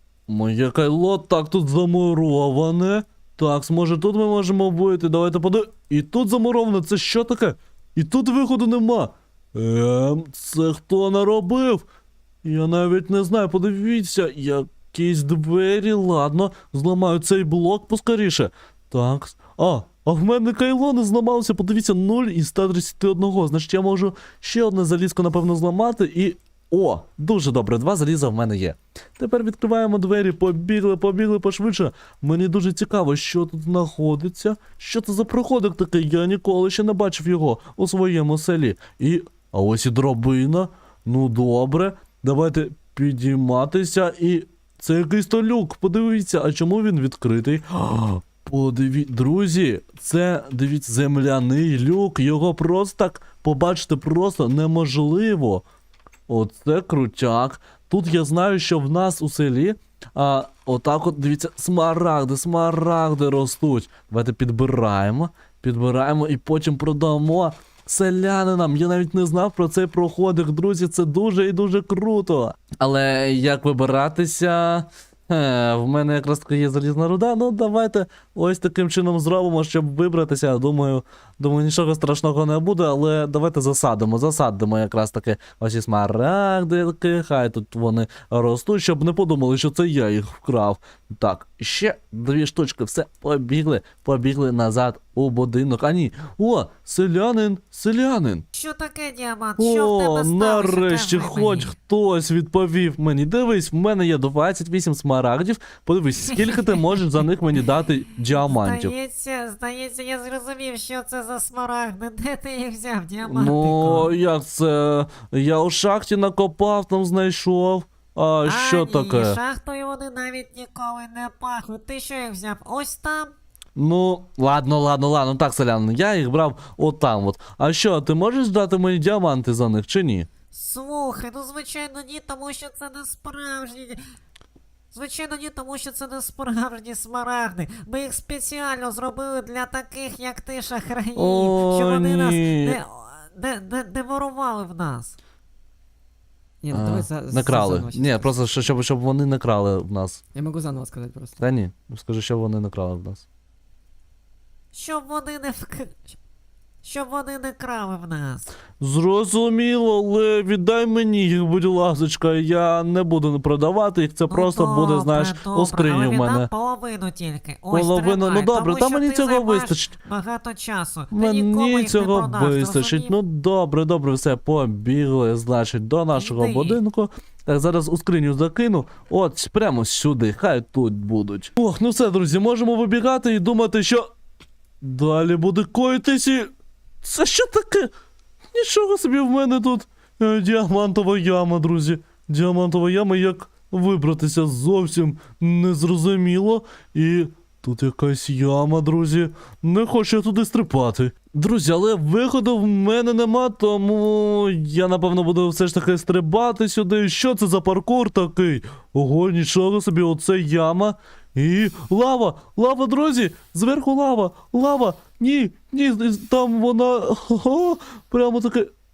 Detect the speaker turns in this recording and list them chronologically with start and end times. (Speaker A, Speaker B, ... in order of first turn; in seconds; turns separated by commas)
Speaker A: 0.3-11.8, Speaker A: 12.4-55.6, Speaker A: 56.3-98.4, Speaker B: 98.5-101.7, Speaker A: 99.6-108.9, Speaker B: 106.3-107.0, Speaker B: 108.3-114.1, Speaker A: 113.2-119.4, Speaker B: 118.4-123.3, Speaker A: 123.8-130.3, Speaker B: 130.5-134.0, Speaker B: 134.9-145.1, Speaker A: 141.1-142.8, Speaker C: 146.6-148.4, Speaker A: 146.7-150.2, Speaker C: 150.3-151.4, Speaker A: 151.4-153.2, Speaker B: 154.7-156.2, Speaker B: 156.8-158.5, Speaker A: 158.8-166.5, Speaker B: 164.3-173.1, Speaker A: 167.7-169.9, Speaker A: 171.1-184.1, Speaker B: 176.1-176.8, Speaker A: 184.8-186.5, Speaker A: 187.0-187.9, Speaker A: 188.5-218.7